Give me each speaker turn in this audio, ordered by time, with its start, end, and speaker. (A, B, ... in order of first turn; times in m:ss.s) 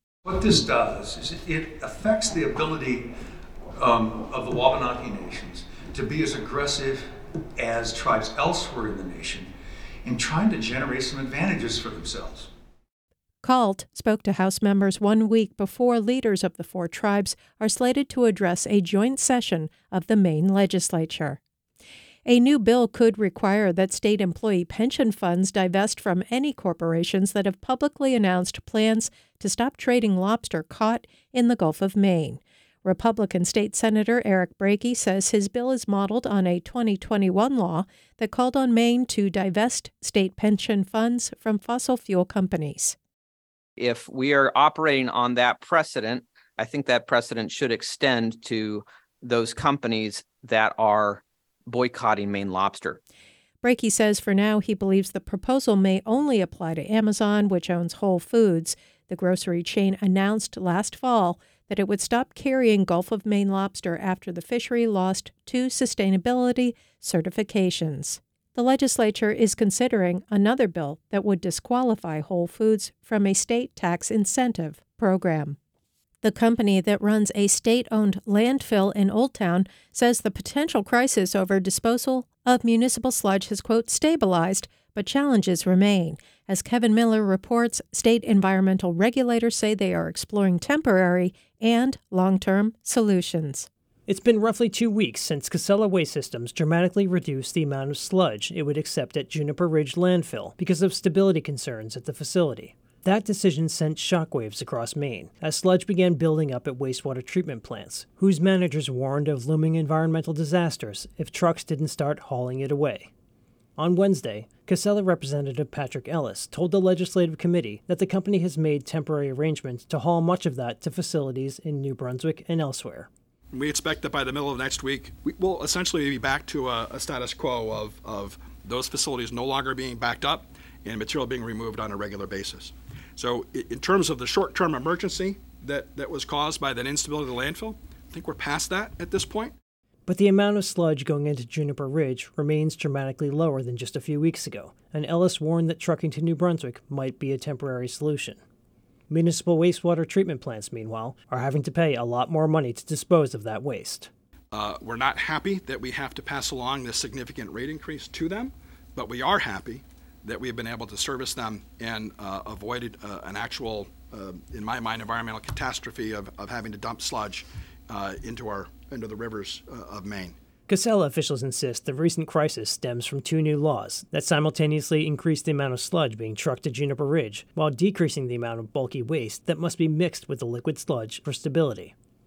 0:00.2-0:03.1 A
0:03.8-0:09.5 A
0:10.0-0:12.5 A
0:13.4-0:21.4 B
0:22.2-0:43.0 B
0:43.8-0:53.0 C
0:53.6-1:15.6 B
1:16.2-1:33.7 B
1:34.1-1:53.1 D
1:53.8-2:03.1 D
2:03.5-2:19.5 E
2:20.1-2:28.4 D
2:29.1-2:34.1 D
2:34.5-2:50.4 E
2:50.7-3:01.9 D